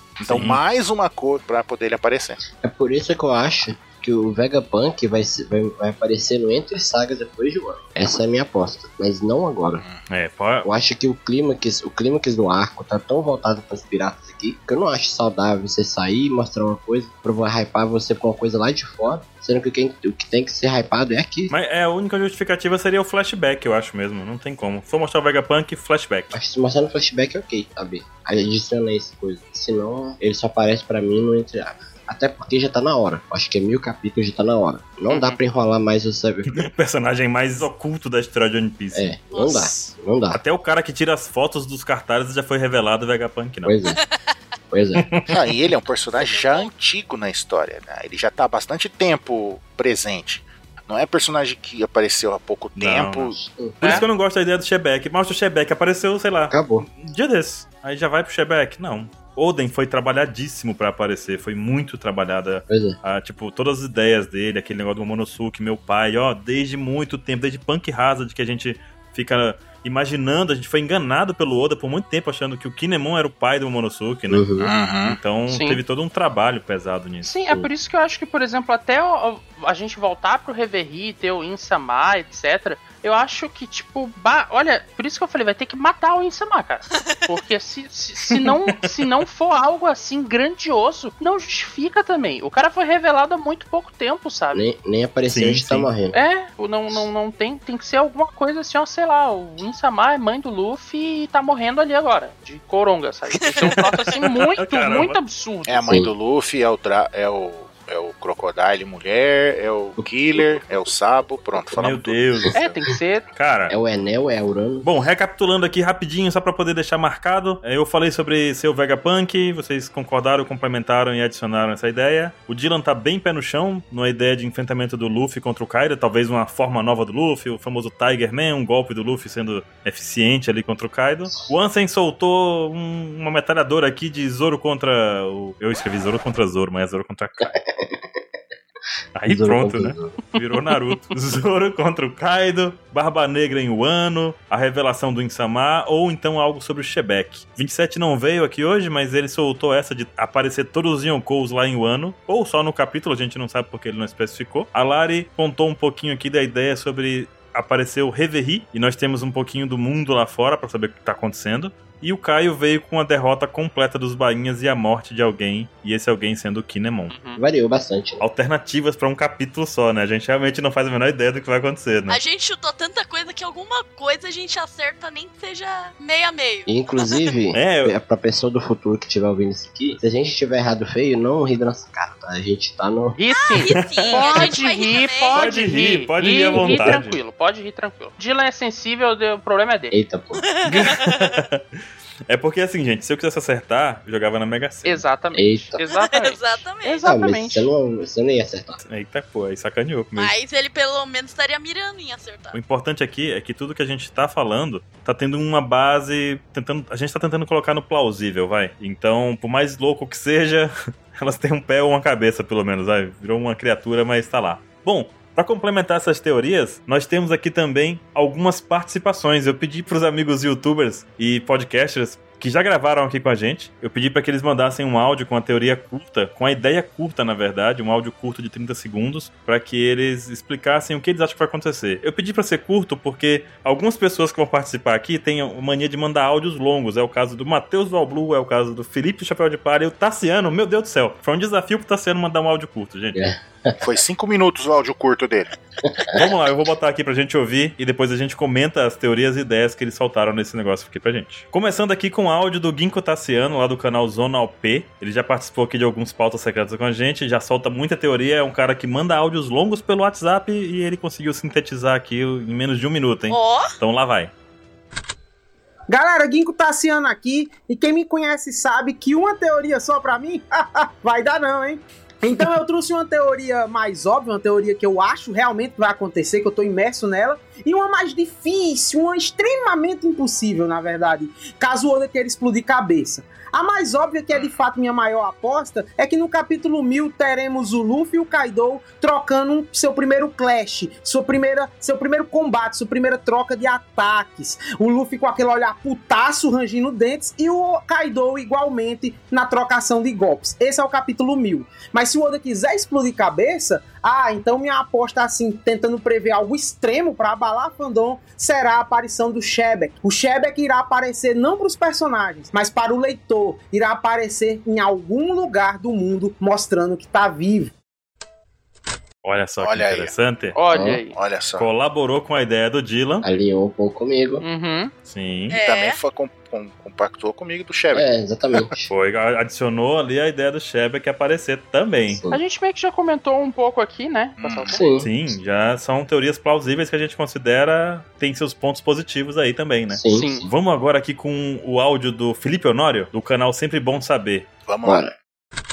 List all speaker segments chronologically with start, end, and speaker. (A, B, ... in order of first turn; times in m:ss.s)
0:00.2-0:02.4 A
0:00.2-0:00.6 B
0:02.5-0:09.8 C
0:10.1-0:10.7 B
0:10.6-0:21.5 C
0:21.5-0:26.3 B
0:26.3-0:36.6 C
0:36.5-0:39.2 B
0:38.9-0:40.4 C
0:39.3-0:39.9 D
0:40.3-0:43.7 B
0:43.6-0:44.0 C
0:44.0-0:44.3 D
0:44.7-0:45.2 C
0:45.0-0:45.3 B
0:45.3-0:53.4 A
0:46.1-0:46.7 D
0:52.8-1:17.3 B
0:53.4-0:54.0 C
0:56.5-0:56.8 C
1:02.7-1:03.0 C
1:14.3-1:14.7 C
1:14.6-1:15.2 A
1:15.5-1:15.8 E
1:17.2-1:34.6 E
1:34.5-1:36.1 C
1:35.3-1:35.9 B
1:36.1-1:46.0 E
1:44.3-1:45.2 B
1:45.6-1:52.7 A
1:50.0-1:50.8 C
1:51.8-1:52.6 B
1:52.5-1:53.2 E
1:53.3-1:53.7 B
1:53.7-1:54.9 C
1:54.8-2:17.6 B
2:17.4-2:18.2 C
2:19.1-2:47.1 B
2:19.3-2:20.2 C
2:47.1-2:47.4 E
2:47.4-2:48.2 C
2:48.2-2:52.2 B
2:52.1-2:56.8 D
2:56.7-3:03.2 C
2:57.5-2:57.9 B
3:03.2-3:10.0 E
3:03.6-3:05.4 D
3:03.8-3:04.6 B
3:05.3-3:07.2 B
3:06.6-3:07.0 C
3:09.9-3:10.4 C
3:10.5-3:11.4 D
3:10.6-3:11.6 B
3:12.3-3:15.0 B
3:14.8-3:17.7 E
3:15.3-3:15.8 C
3:16.0-3:17.0 D
3:17.0-3:18.8 C
3:18.8-3:20.3 B
3:20.2-3:22.6 D
3:22.5-4:03.2 B
4:03.1-4:03.8 C
4:03.8-4:05.5 A
4:06.1-4:24.3 B
4:23.3-4:23.7 D
4:25.9-5:17.7 F
5:19.2-5:20.6 B
5:19.6-5:20.1 A
5:20.5-5:21.2 E
5:20.7-5:21.0 C
5:21.1-5:21.7 A
5:21.6-5:23.2 B
5:23.2-5:24.4 C
5:24.4-5:24.9 E
5:25.0-5:25.6 B
5:25.5-5:26.0 D
5:25.6-5:28.1 A
5:27.9-5:28.9 C
5:28.9-5:32.2 B
5:32.1-5:32.4 C
5:32.3-5:34.8 E
5:34.4-5:34.8 A
5:34.7-5:35.1 C
5:35.0-5:44.5 B
5:39.9-5:40.5 C
5:40.1-5:40.4 E
5:44.6-5:45.1 A
5:44.8-5:45.1 C